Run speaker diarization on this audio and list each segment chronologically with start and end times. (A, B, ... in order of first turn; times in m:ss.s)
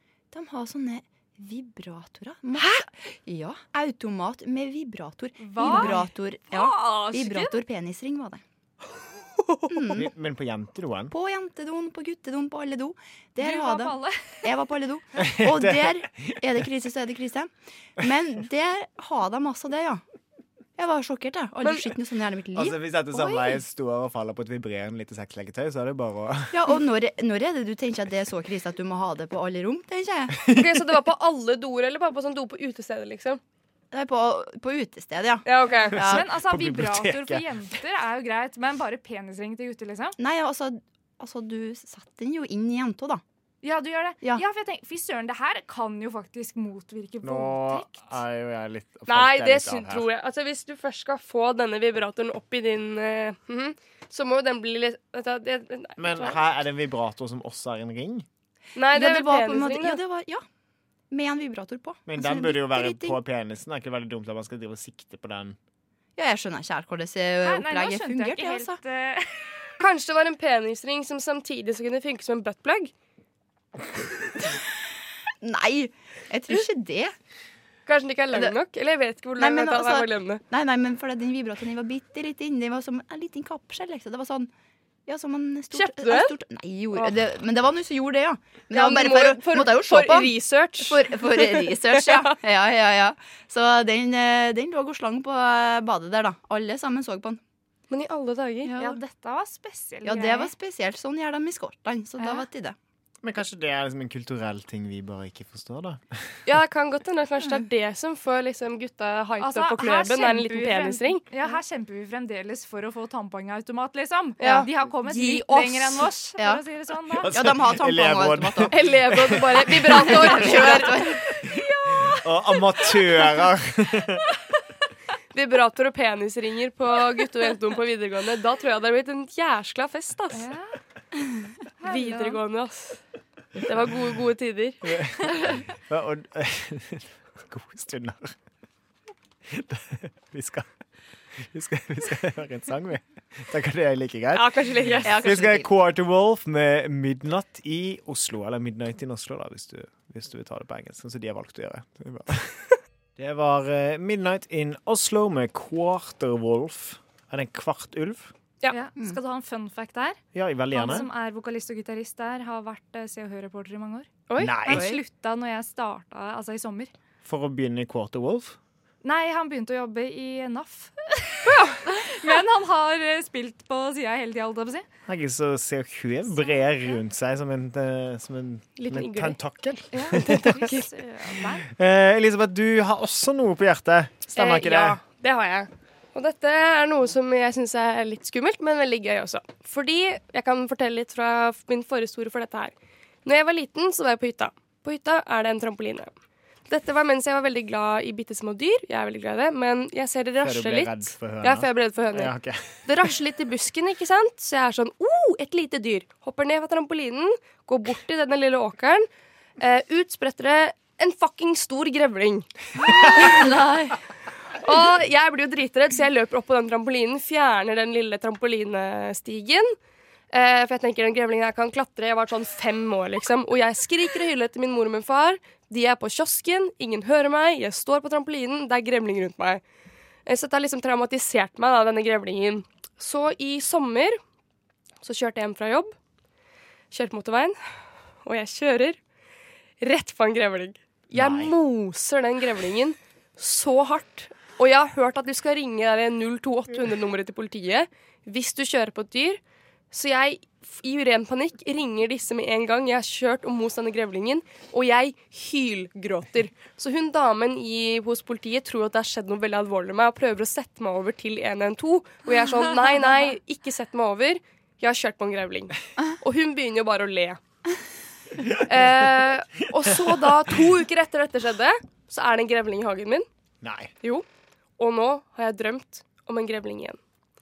0:00.3-0:08.4 A
0:05.4-0:07.6 B
0:05.6-0:06.0 C
0:09.4-0:09.7 C
0:09.7-0:10.1 A
0:09.9-0:11.1 D
0:11.1-0:20.0 A
0:13.4-0:14.5 B
0:15.2-0:16.7 D
0:20.8-0:22.8 A
0:22.6-0:26.6 D
0:23.1-0:23.5 B
0:26.5-0:30.4 A
0:30.4-0:30.8 D
0:30.5-0:33.4 C
0:33.9-0:36.2 A
0:35.4-0:36.0 C
0:35.9-0:40.2 B
0:35.9-0:37.5 D
0:40.2-0:43.2 A
0:43.6-0:48.1 B
0:47.2-0:50.1 D
0:49.1-0:56.4 C
0:56.0-0:58.3 D
0:58.8-1:00.0 C
0:58.9-1:00.4 A
1:01.1-1:03.2 A
1:02.1-1:05.6 D
1:06.2-1:08.8 A
1:07.4-1:09.4 B
1:09.8-1:12.9 C
1:15.4-1:17.1 A
1:17.9-1:20.4 C
1:19.4-1:24.5 A
1:25.1-1:37.4 A
1:25.7-1:26.3 C
1:28.7-1:32.3 C
1:37.9-1:38.7 C
1:38.6-1:39.0 A
1:38.8-1:40.5 B
1:40.0-1:42.8 A
1:42.2-1:42.5 B
1:43.2-1:46.2 D
1:46.5-1:51.2 C
1:49.4-1:57.3 B
1:54.4-1:55.9 C
1:56.4-1:56.6 A
1:57.2-2:00.1 D
1:57.3-1:58.8 A
1:58.7-2:01.0 C
1:59.8-2:01.3 A
2:01.3-2:04.3 D
2:01.6-2:02.2 B
2:05.3-2:10.4 C
2:10.3-2:10.8 B
2:11.8-2:12.4 B
2:11.8-2:13.0 C
2:13.6-2:14.8 C
2:14.8-2:18.4 D
2:19.5-2:20.7 D
2:21.4-2:38.3 D
2:24.3-2:25.2 C
2:25.0-2:25.7 A
2:38.7-2:44.1 B
2:40.3-2:41.1 D
2:44.3-2:44.6 C
2:44.4-2:44.9 D
2:44.6-2:46.9 B
2:44.7-2:45.0 A
2:47.2-2:48.6 D
2:49.0-2:54.9 B
2:51.4-2:51.9 C
2:55.1-3:00.7 D
2:56.4-2:57.0 B
2:58.8-2:59.4 C
2:59.9-3:01.7 B
3:00.2-3:00.9 C
3:01.6-3:05.0 D
3:04.4-3:12.7 C
3:13.2-3:16.1 C
3:16.7-3:29.1 C
3:20.4-3:23.1 D
3:29.6-3:32.5 C
3:32.8-3:34.0 A
3:33.1-3:33.4 C
3:34.6-3:39.8 C
3:40.3-3:49.6 C
3:50.3-3:54.2 C
3:55.0-3:56.0 C
3:56.9-3:57.6 C
3:58.2-3:59.0 C
3:59.8-4:09.4 C
4:01.1-4:01.5 D
4:09.9-4:27.4 C
4:28.7-4:33.3 C
4:29.8-4:30.2 D
4:33.6-4:33.9 D
4:34.8-4:37.0 C